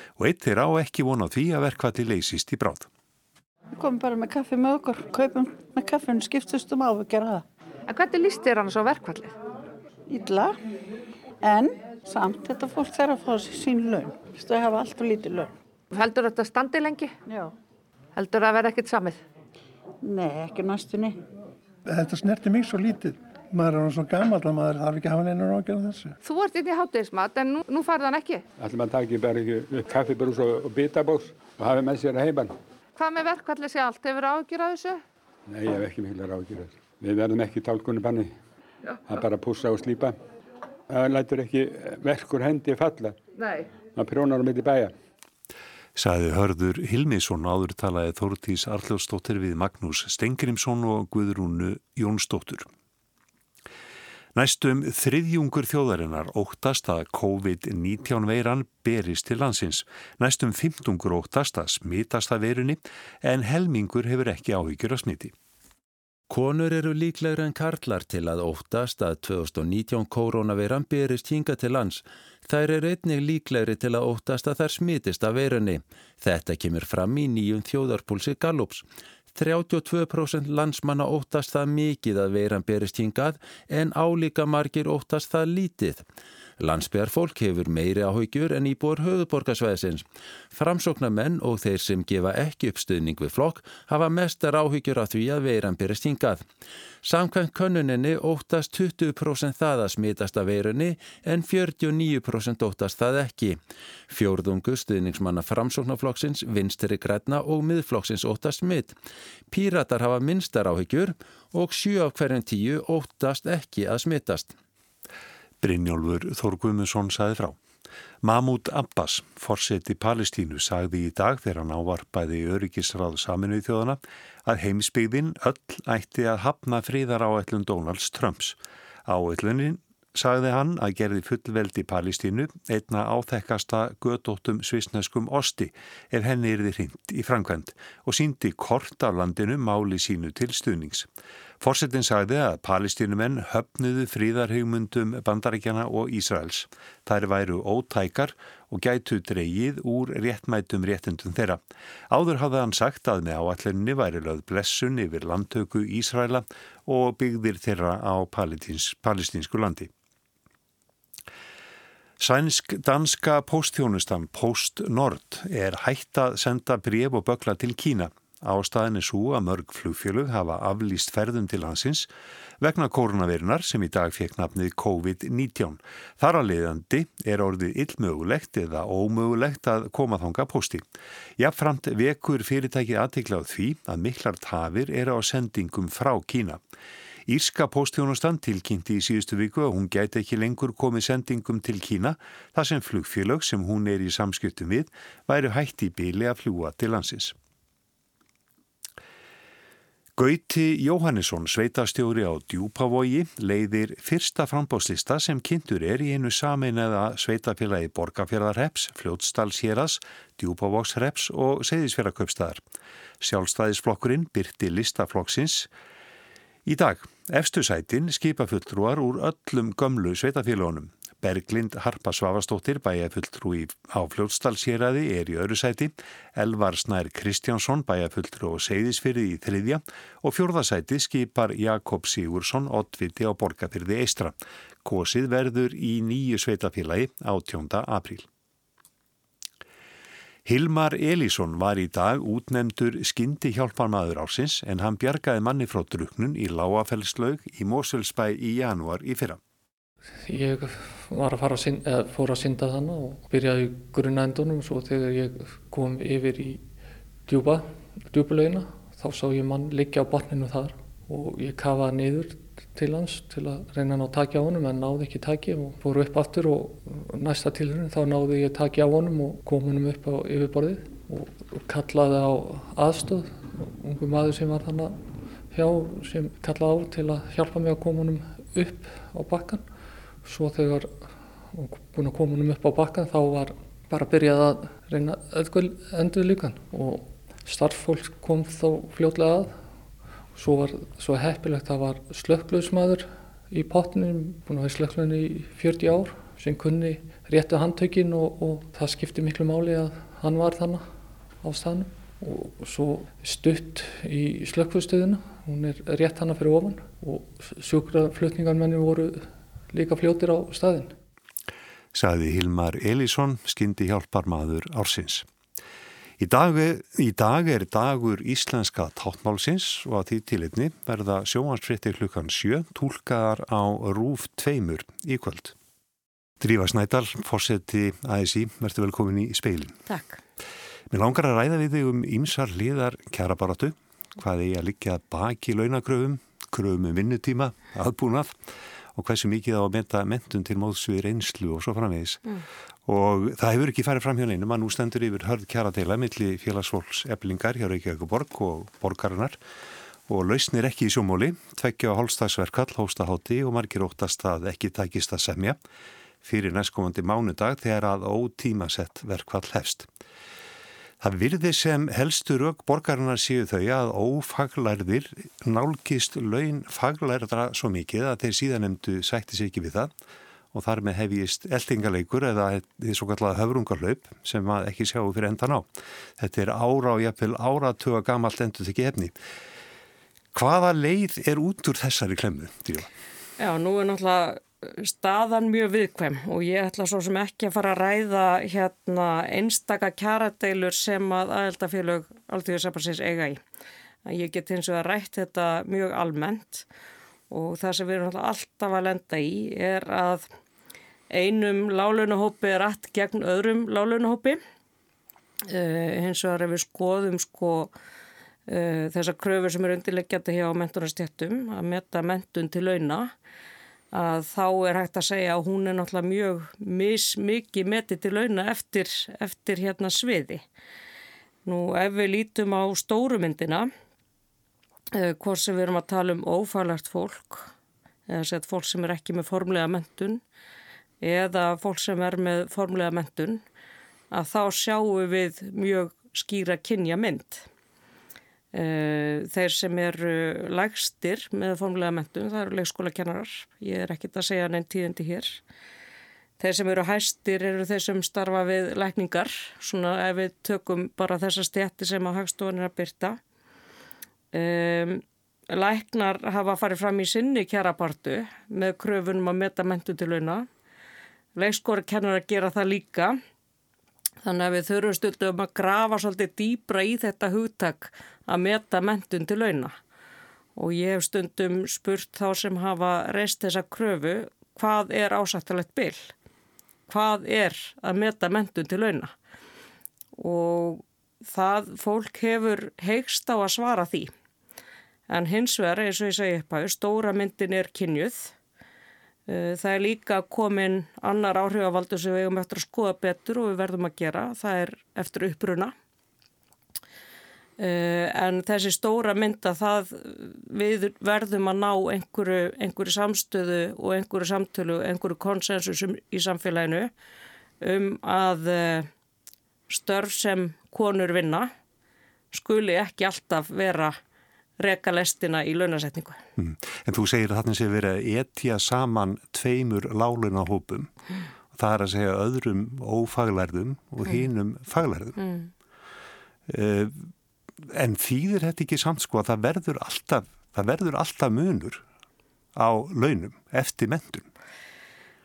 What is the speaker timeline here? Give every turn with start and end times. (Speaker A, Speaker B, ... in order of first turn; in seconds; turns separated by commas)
Speaker A: 0.2-2.9, Speaker B: 3.8-7.4, Speaker C: 7.9-9.3, Speaker B: 10.1-10.6, Speaker B: 11.4-15.5, Speaker C: 15.9-17.1, Speaker B: 17.2-17.5, Speaker C: 18.1-19.2, Speaker B: 20.0-21.2, Speaker D: 21.9-26.1, Speaker C: 26.2-28.4, Speaker E: 28.6-32.5, Speaker C: 33.0-35.0, Speaker E: 35.5-38.3, Speaker E: 39.0-40.1, Speaker E: 40.9-43.2, Speaker C: 43.4-43.6, Speaker E: 43.9-44.9, Speaker A: 45.9-52.7, Speaker A: 54.3-65.3, Speaker F: 66.3-86.0, Speaker F: 86.6-96.5, Speaker F: 97.0-109.0, Speaker F: 109.5-114.5, Speaker A: 115.6-117.6, Speaker A: 118.2-141.1, Speaker A: 141.6-159.9, Speaker A: 162.2-172.1, Speaker A: 172.6-180.8, Speaker A: 181.4-186.6, Speaker A: 187.2-197.3, Speaker A: 200.1-212.6, Speaker A: 213.2-215.7, Speaker A: 216.7-238.3, Speaker A: 240.4-249.4, Speaker G: 250.2-256.7, Speaker G: 257.2-289.7, Speaker G: 290.3-310.9, Speaker A: 311.9-315.3, Speaker A: 316.2-325.5, Speaker A: 326.4-329.8, Speaker H: 329.9-330.2, Speaker A: 330.9-338.4, Speaker A: 338.9-342.2, Speaker A: 342.9-349.4, Speaker A: 350.1-355.6, Speaker A: 356.2-359.9, Speaker A: 361.0-369.9, Speaker A: 370.5-379.1, Speaker A: 380.3-382.9, Speaker H: 383.4-393.4, Speaker H: 394.1-396.7, Speaker H: 397.3-400.2, Speaker H: 401.1-404.4, Speaker H: 405.5-407.7, Speaker H: 408.5-413.1, Speaker H: 413.9-420.4, Speaker H: 421.4-423.7, Speaker H: 424.9-427.5, Speaker H: 428.1-430.2, Speaker H: 431.0-433.4, Speaker H: 434.1-437.5, Speaker H: 438.5-445.4, Speaker H: 446.4-453.2, Speaker H: 454.3-460.4, Speaker H: 461.4-463.1, Speaker H: 464.2-469.7, Speaker H: 470.6-476.1, Speaker H: 476.9-479.1, Speaker H: 480.2-484.1, Speaker H: 485.1-488.3, Speaker H: 489.3-495.7, Speaker H: 497.6-506.9, Speaker H: 507.6-508.9, Speaker H: 509.7-511.5, Speaker H: 512.3-514.0, Speaker H: 514.6-516.2, Speaker A: 516.4-520.9, Speaker A: 521.5-525.2, Speaker H: 525.2-525.5, Speaker A: 526.5-527.1, Speaker A: 527.6-531.8, Speaker A: 532.5-534.3